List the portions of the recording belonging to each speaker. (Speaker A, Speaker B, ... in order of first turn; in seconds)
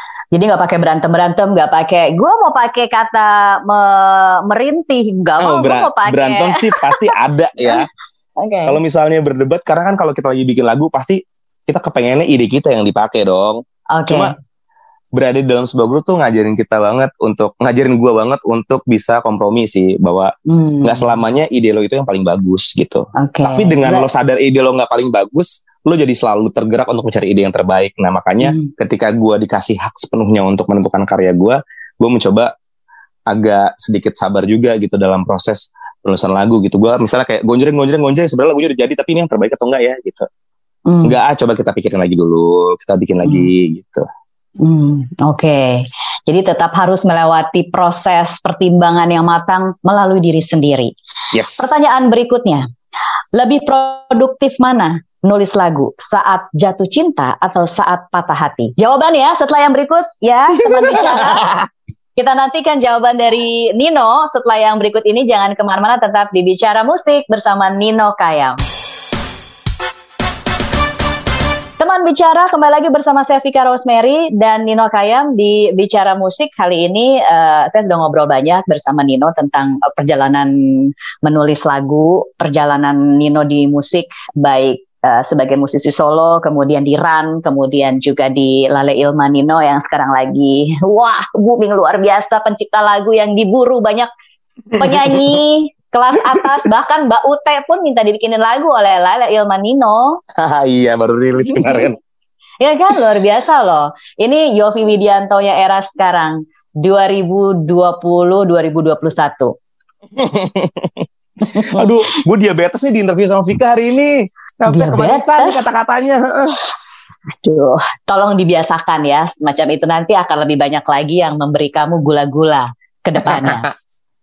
Speaker A: 0.3-7.1, 8.4-8.8, 13.9-14.3, 20.5-21.2, 23.2-24.1, 28.4-28.7, 40.9-41.1, 44.6-50.9, 51.5-52.7, 53.3-61.5, 62.1-68.6, 71.8-94.1, 94.7-100.2, 101.5-101.9, 102.6-109.5, 111.4-112.2, 114.7-115.7, 117.4-123.7
Speaker B: 5.4-7.9, 8.7-14.3, 15.1-20.3, 20.8-32.5, 33.3-40.3, 41.0-44.0, 51.3-51.7, 60.8-61.7, 94.7-95.4, 100.4-102.0, 110.2-116.6, 123.2-123.7